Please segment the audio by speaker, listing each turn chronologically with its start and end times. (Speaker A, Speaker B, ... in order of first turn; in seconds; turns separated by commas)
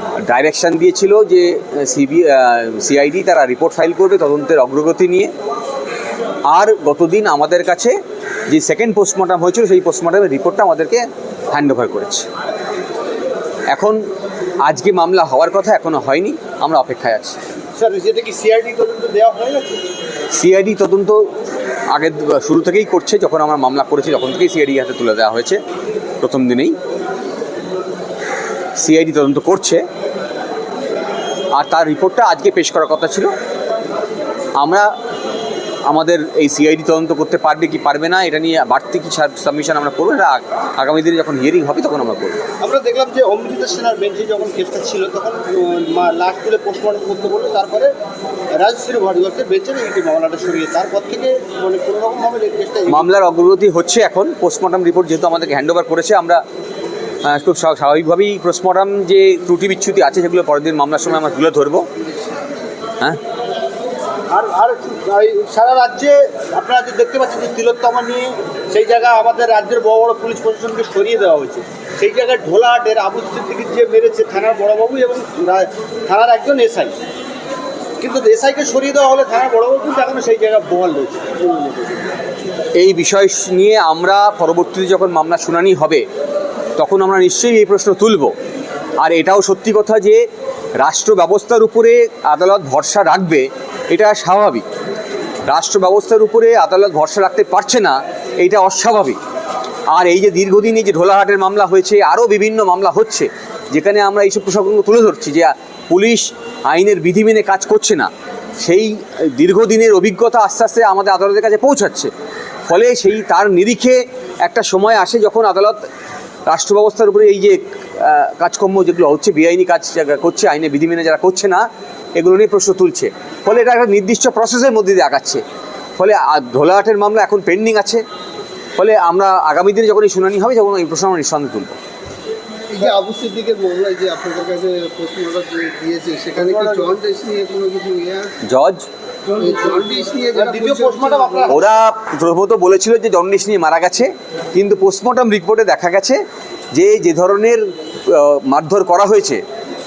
Speaker A: 0.2-5.3, Speaker A: 6.5-8.0, Speaker A: 8.5-12.3, Speaker A: 13.7-14.0, Speaker A: 14.6-17.4, Speaker B: 17.8-19.8, Speaker A: 20.3-21.3, Speaker A: 21.9-25.6, Speaker A: 26.2-26.8, Speaker A: 28.8-29.8, Speaker A: 31.5-33.3, Speaker A: 34.6-34.9, Speaker A: 35.9-42.4, Speaker B: 42.6-47.9, Speaker B: 48.5-53.1, Speaker A: 52.9-56.4, Speaker A: 57.2-61.9, Speaker B: 64.3-76.9, Speaker B: 78.0-82.1, Speaker A: 82.8-86.0, Speaker A: 86.8-88.3, Speaker A: 89.0-90.2, Speaker A: 90.8-94.7, Speaker A: 95.5-99.2, Speaker A: 99.9-112.1, Speaker A: 112.7-115.8, Speaker A: 116.5-125.4, Speaker A: 126.0-128.0, Speaker A: 128.8-131.7, Speaker C: 132.7-138.3, Speaker B: 136.3-136.9, Speaker A: 138.4-138.9, Speaker C: 139.4-141.5, Speaker B: 139.4-141.6, Speaker A: 141.5-146.2, Speaker A: 146.7-149.4